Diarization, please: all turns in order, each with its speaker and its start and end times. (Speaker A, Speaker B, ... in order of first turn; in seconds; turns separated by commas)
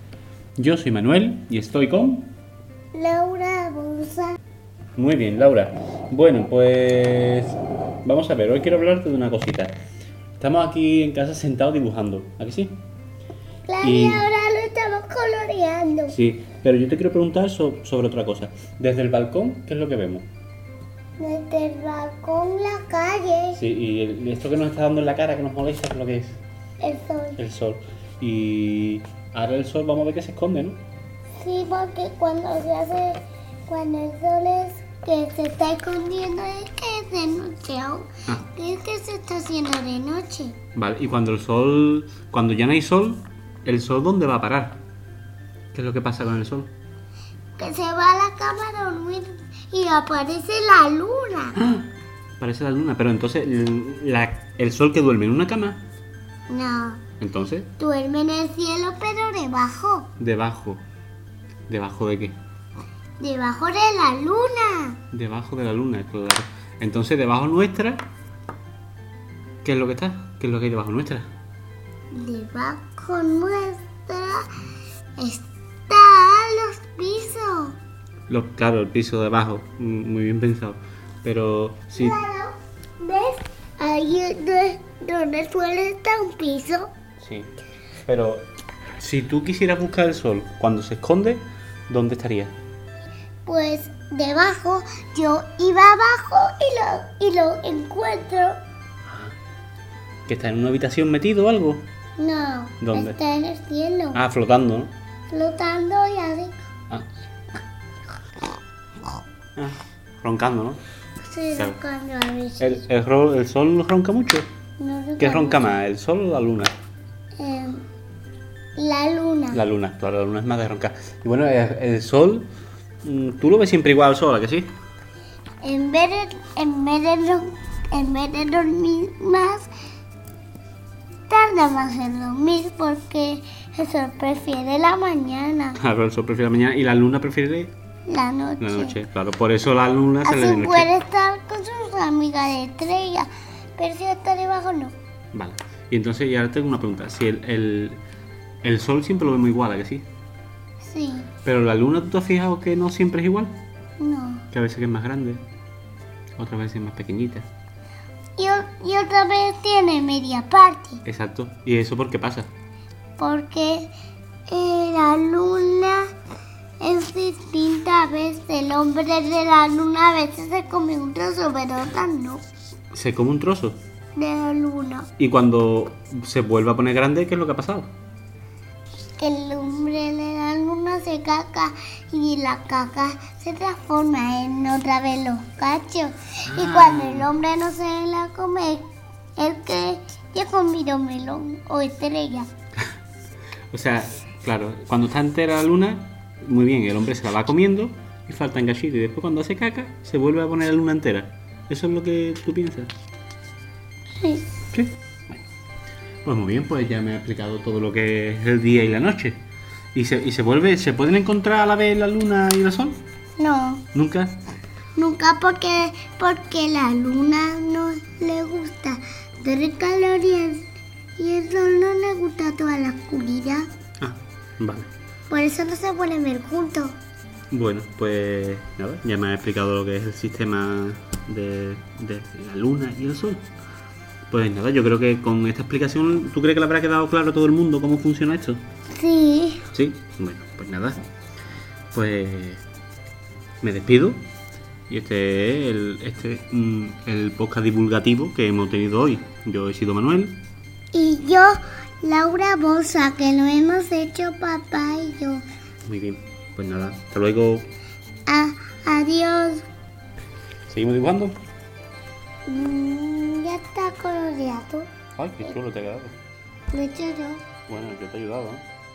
Speaker A: 0.6-2.3, Speaker B: 2.9-4.3, Speaker A: 5.0-9.8, Speaker A: 10.4-12.8, Speaker B: 13.7-16.1, Speaker A: 13.8-14.2, Speaker A: 16.1-20.3, Speaker B: 21.2-23.6, Speaker A: 23.6-26.4, Speaker B: 26.8-27.4, Speaker A: 27.4-30.8, Speaker B: 31.4-40.6, Speaker A: 40.7-44.8, Speaker A: 45.7-46.7, Speaker B: 47.6-51.6, Speaker A: 51.5-55.8, Speaker B: 56.5-57.0, Speaker A: 57.2-57.7, Speaker B: 57.8-60.1, Speaker A: 60.2-60.8, Speaker A: 61.7-62.4, Speaker B: 63.2-65.0, Speaker A: 65.1-68.0, Speaker A: 69.6-71.3, Speaker B: 72.1-74.5, Speaker B: 75.2-77.8, Speaker A: 78.3-82.2, Speaker B: 81.9-86.9, Speaker A: 87.2-88.5, Speaker A: 89.0-92.5, Speaker B: 93.5-98.6, Speaker A: 100.2-101.8, Speaker B: 102.2-104.2, Speaker A: 102.8-103.2, Speaker A: 104.1-104.9, Speaker B: 105.3-106.6, Speaker A: 109.5-110.8, Speaker B: 111.2-112.8, Speaker A: 112.6-114.5, Speaker B: 114.8-115.8, Speaker A: 115.2-116.7, Speaker B: 117.4-117.8, Speaker B: 118.8-119.6, Speaker A: 119.5-122.5, Speaker A: 123.0-124.7, Speaker B: 125.6-129.7, Speaker B: 131.3-135.8, Speaker A: 135.8-137.7, Speaker B: 138.1-138.9, Speaker A: 138.6-140.9, Speaker B: 140.2-144.9, Speaker A: 145.3-148.0, Speaker A: 148.6-150.0, Speaker B: 150.8-151.3, Speaker A: 151.4-153.5, Speaker B: 154.0-154.4, Speaker A: 154.5-155.4, Speaker A: 156.4-157.5, Speaker B: 158.4-161.0, Speaker A: 161.0-162.5, Speaker B: 163.2-163.9, Speaker B: 164.5-166.1, Speaker B: 166.8-172.4, Speaker A: 172.9-173.8, Speaker B: 174.2-175.1, Speaker A: 175.2-177.9, Speaker B: 179.2-192.5, Speaker A: 186.5-187.3, Speaker A: 193.7-202.9, Speaker B: 204.2-204.5, Speaker A: 204.7-205.4, Speaker A: 206.2-209.4, Speaker A: 209.9-213.0, Speaker B: 213.4-213.8, Speaker A: 213.9-214.3, Speaker B: 214.9-223.7, Speaker A: 224.0-224.9, Speaker B: 225.3-226.9, Speaker A: 227.5-233.4, Speaker A: 234.3-238.6, Speaker B: 238.9-239.7, Speaker A: 239.7-241.0, Speaker A: 241.9-242.6, Speaker A: 243.6-244.2, Speaker A: 244.9-250.4, Speaker B: 250.9-255.4, Speaker A: 255.8-257.7, Speaker B: 258.3-259.6, Speaker A: 260.7-261.4, Speaker B: 262.5-264.9, Speaker A: 265.2-266.1, Speaker B: 266.7-267.4, Speaker A: 267.7-268.6